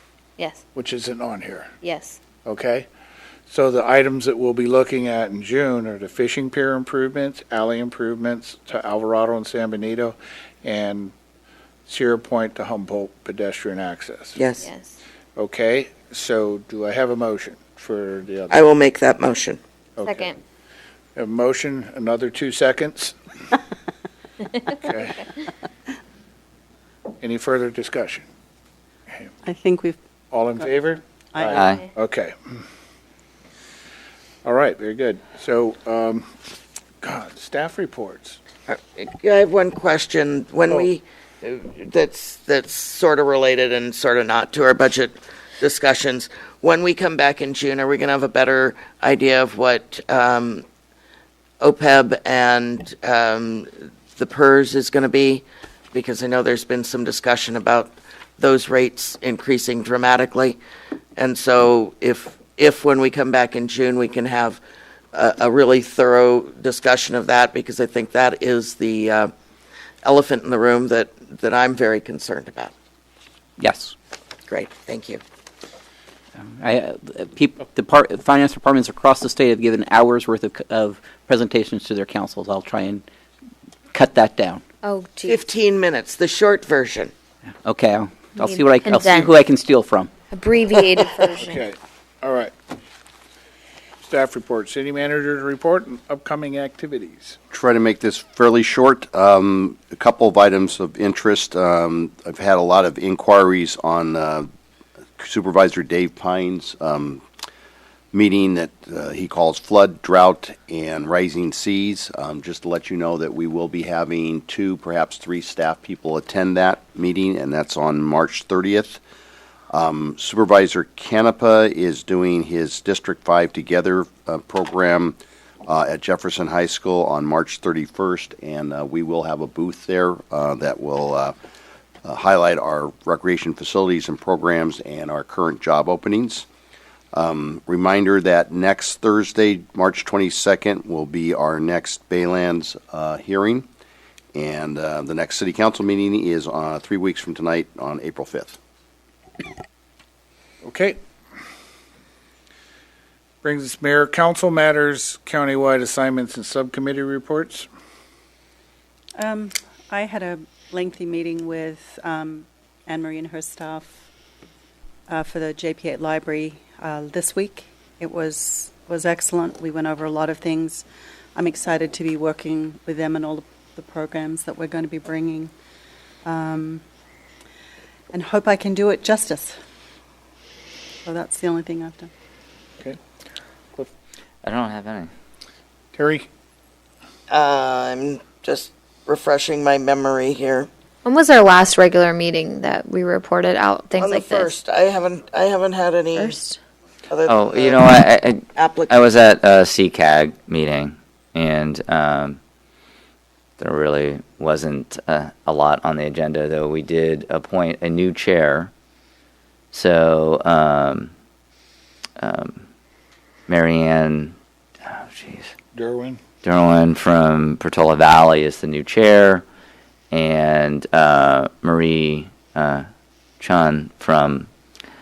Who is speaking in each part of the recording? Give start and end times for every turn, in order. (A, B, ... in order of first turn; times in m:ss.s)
0:00.8-0:01.7 A
0:01.8-0:02.2 B
0:02.4-0:02.9 A
0:03.5-0:11.1 A
0:11.9-0:14.4 A
0:14.4-0:14.7 C
0:15.4-0:18.7 A
0:18.5-0:19.6 C
0:20.0-0:20.3 A
0:20.0-0:20.3 B
0:21.2-0:23.2 A
0:24.7-0:25.3 A
0:27.2-0:28.3 A
0:29.4-0:30.0 D
0:30.3-0:32.6 A
0:31.3-0:31.7 D
0:31.5-0:31.8 E
0:34.4-0:36.3 A
0:37.0-0:38.4 A
0:38.7-0:50.6 C
0:51.6-1:00.6 C
1:01.2-1:04.6 C
1:05.1-1:09.3 C
1:10.0-1:12.7 C
1:13.6-1:13.9 F
1:14.5-1:15.2 C
1:16.4-1:23.0 F
1:23.9-1:24.6 F
1:24.8-1:25.4 B
1:25.2-1:27.1 C
1:27.6-1:30.1 F
1:28.4-1:29.3 B
1:30.3-1:31.6 B
1:31.4-1:32.5 A
1:34.0-1:37.4 A
1:37.5-1:44.5 G
1:45.2-1:47.2 G
1:48.1-1:59.0 G
1:59.7-2:11.3 G
2:12.0-2:16.5 G
2:17.1-2:23.7 G
2:24.4-2:28.6 G
2:30.6-2:31.0 A
2:33.4-2:37.7 A
2:39.2-2:43.9 D
2:45.1-2:50.8 D
2:51.4-2:55.5 D
2:56.2-2:56.8 D
2:58.1-2:59.6 D
3:01.0-3:02.1 D
3:04.4-3:05.1 E
3:05.9-3:06.3 A
3:07.3-3:10.7 C
3:11.1-3:14.5 B
3:14.0-3:16.4 C
3:16.2-3:16.5 B
3:17.1-3:17.9 C
3:17.3-3:22.4 E
3:18.6-3:19.0 C
3:23.6-3:28.7 E
3:29.7-3:31.1 E
3:32.2-3:32.6 E
3:33.5-3:35.5 E
3:35.8-3:36.2 A
3:36.4-3:39.4 E
3:40.1-3:42.9 E
3:43.4-3:44.5 E